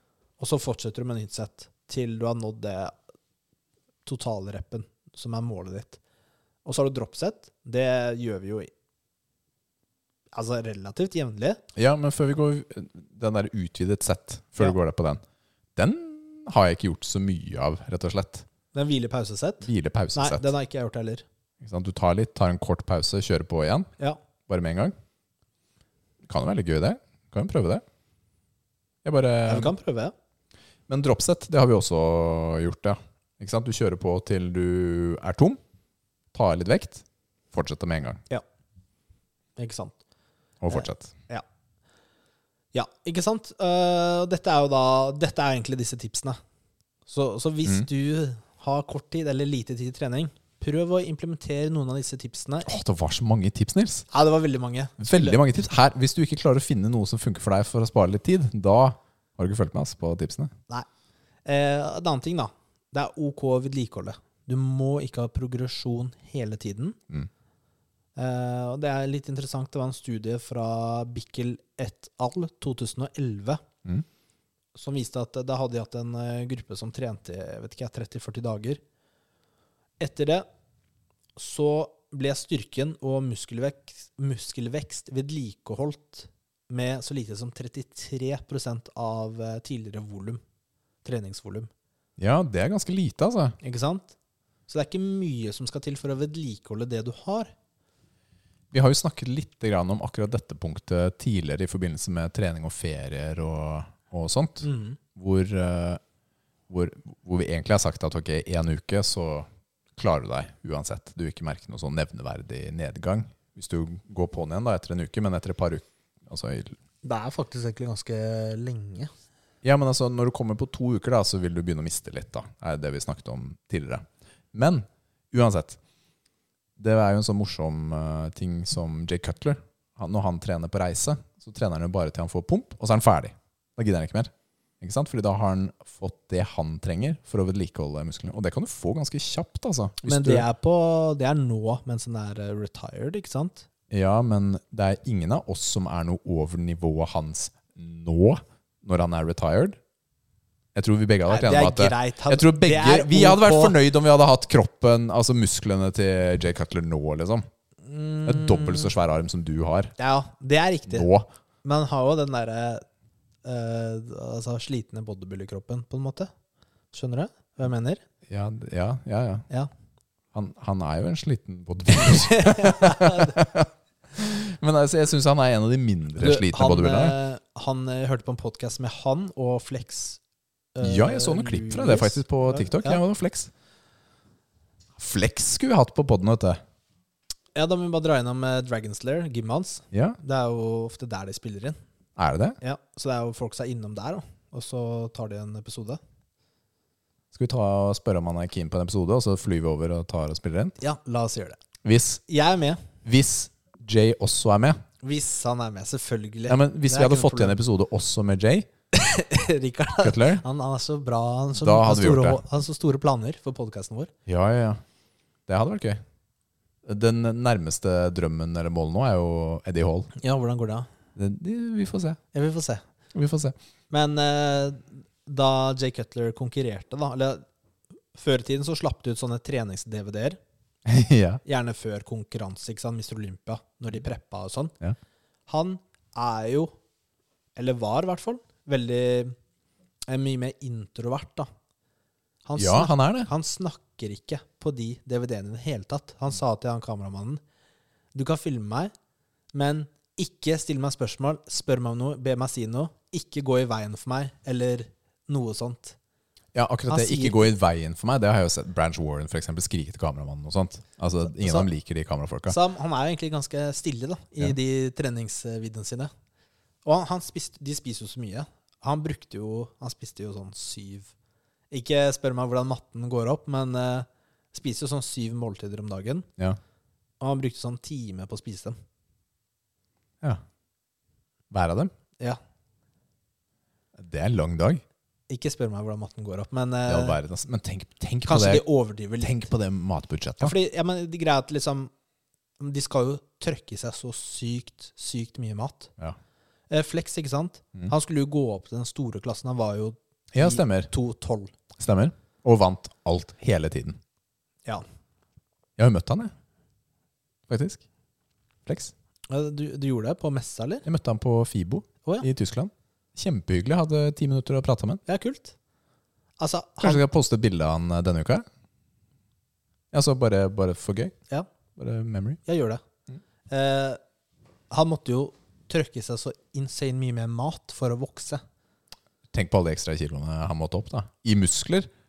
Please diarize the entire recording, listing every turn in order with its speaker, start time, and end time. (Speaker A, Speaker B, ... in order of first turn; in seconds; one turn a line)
Speaker A: 0.4-2.9
Speaker A: 4.1-6.0
Speaker A: 6.7-8.7
Speaker A: 10.3-11.6
Speaker B: 11.8-15.2
Speaker B: 15.8-18.5
Speaker A: 18.7-21.2
Speaker B: 19.6-20.5
Speaker B: 21.6-23.9
Speaker B: 24.5-24.9
Speaker B: 26.3-27.8
Speaker B: 29.0-29.7
Speaker A: 29.5-30.1
Speaker B: 30.9-35.6
Speaker B: 36.3-38.2
Speaker A: 39.6-40.0
Speaker B: 40.6-41.1
Speaker A: 40.7-41.4
Speaker A: 42.7-46.4
Speaker A: 47.1-52.7
Speaker B: 52.6-54.1
Speaker A: 54.1-55.4
Speaker B: 55.0-60.5
Speaker A: 61.5-67.0
Speaker A: 68.2-73.6
Speaker A: 74.8-78.8
Speaker A: 80.0-80.5
Speaker A: 81.4-90.4
Speaker A: 91.0-91.7
Speaker B: 92.2-93.6
Speaker A: 93.6-94.1
Speaker A: 94.7-97.5
Speaker B: 98.7-106.0
Speaker A: 104.6-105.0
Speaker B: 106.7-116.8
Speaker A: 117.0-119.1
Speaker B: 119.6-125.8
Speaker B: 126.8-140.4
Speaker A: 140.1-143.7
Speaker B: 143.9-149.8
Speaker B: 150.8-157.5
Speaker A: 151.3-153.8
Speaker A: 157.8-158.9
Speaker B: 158.2-159.9
Speaker A: 160.0-161.1
Speaker B: 160.9-161.3
Speaker A: 161.6-162.8
Speaker A: 163.4-166.3
Speaker A: 166.9-168.0
Speaker B: 168.3-169.5
Speaker B: 170.3-177.2
Speaker A: 172.1-173.4
Speaker A: 176.2-180.2
Speaker A: 180.8-183.0
Speaker B: 180.8-183.5
Speaker B: 185.0-186.6
Speaker A: 187.6-191.8
Speaker B: 189.9-190.2
Speaker B: 192.2-192.6
Speaker A: 192.6-196.0
Speaker B: 197.3-200.8
Speaker A: 200.8-201.6
Speaker B: 201.8-202.2
Speaker A: 202.3-202.8
Speaker B: 203.0-204.8
Speaker A: 205.0-207.6
Speaker B: 206.5-208.7
Speaker A: 208.9-214.1
Speaker B: 210.0-210.4
Speaker B: 211.6-212.4
Speaker B: 214.3-214.8
Speaker B: 215.5-216.0
Speaker B: 216.8-220.1
Speaker A: 220.2-220.9
Speaker B: 221.2-222.2
Speaker A: 222.3-222.8
Speaker B: 223.1-223.6
Speaker A: 223.9-227.4
Speaker A: 228.1-230.4
Speaker B: 230.9-231.4
Speaker A: 231.4-234.8
Speaker A: 235.5-236.7
Speaker A: 237.6-239.3
Speaker A: 240.1-241.5
Speaker A: 242.5-247.4
Speaker B: 242.6-243.3
Speaker A: 248.2-248.9
Speaker A: 249.5-256.0
Speaker B: 256.5-262.6
Speaker A: 256.9-257.5
Speaker A: 261.3-261.7
Speaker A: 262.5-266.1
Speaker A: 266.9-271.1
Speaker A: 271.7-276.3
Speaker A: 277.2-278.8
Speaker B: 281.5-281.9
Speaker B: 284.0-284.8
Speaker A: 285.3-287.2
Speaker B: 286.9-288.6
Speaker A: 288.3-289.5
Speaker B: 289.2-290.6
Speaker A: 290.4-291.9
Speaker A: 292.6-295.9
Speaker A: 296.7-301.5
Speaker B: 300.3-300.9
Speaker B: 301.8-304.0
Speaker B: 305.8-306.3
Speaker B: 307.5-307.8
Speaker B: 308.7-308.9
Speaker A: 309.3-310.9
Speaker B: 310.9-315.0
Speaker A: 315.1-315.6
Speaker A: 316.4-317.1
Speaker B: 316.8-318.4
Speaker B: 319.9-321.1
Speaker B: 321.8-322.4
Speaker A: 322.5-322.8
Speaker A: 323.5-324.0
Speaker A: 324.7-328.4
Speaker B: 329.3-331.9